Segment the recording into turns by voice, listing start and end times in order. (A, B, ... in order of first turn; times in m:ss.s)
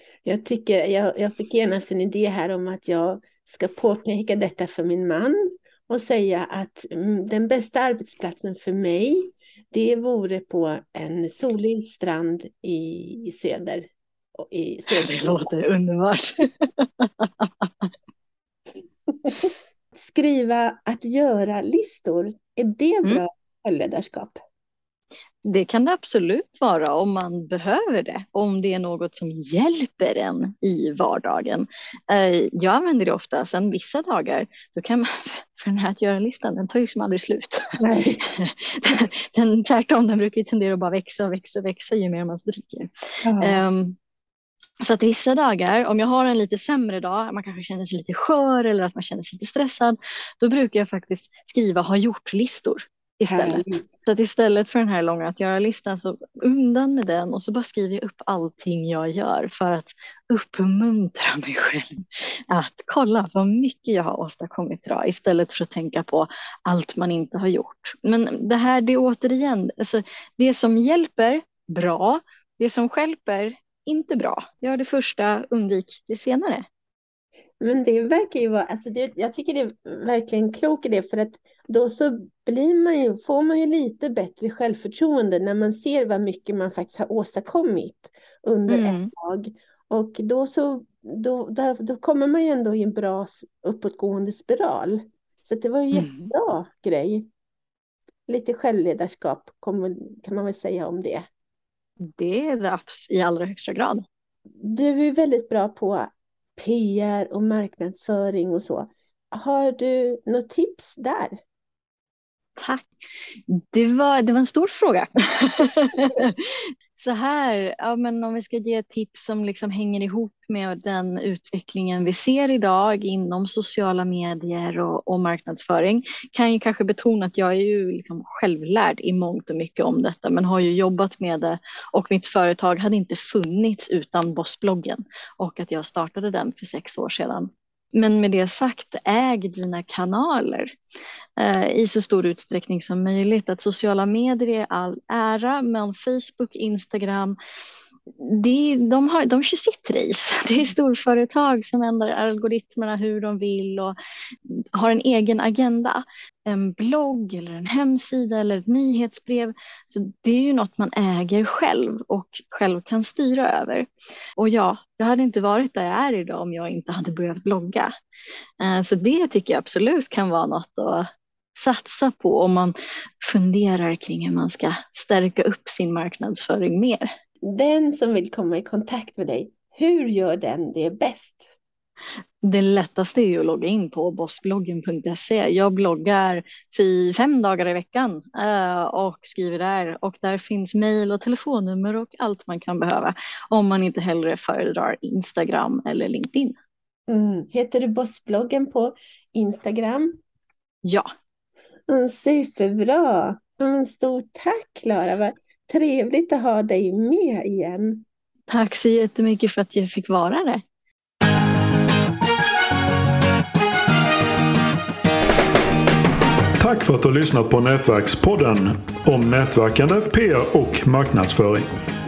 0:00.2-0:15.5 A
0:14.9-0:17.9 B
0:19.3-0:24.4 A
0:25.4-0:37.6 B
0:37.8-0:38.2 A
0:38.3-0:42.9 B
0:43.2-0:43.6 A
0:43.4-0:44.0 B
0:44.8-1:16.6 B
0:53.3-0:53.9 A
1:17.6-1:37.2 A
1:28.7-1:29.1 B
1:35.9-1:36.3 B
1:38.3-1:41.2 A
1:42.0-1:44.0 B
1:44.6-1:51.3 A
1:52.6-1:52.9 B
1:53.5-2:20.7 B
2:21.4-2:27.4 B
2:28.2-2:43.9 B
2:44.4-2:47.9 B
2:48.6-2:57.0 B
2:57.4-3:01.5 A
3:02.4-3:16.6 B
3:17.1-3:20.2 A
3:21.9-3:28.0 A
3:28.5-3:30.6 B
3:36.6-3:41.6 C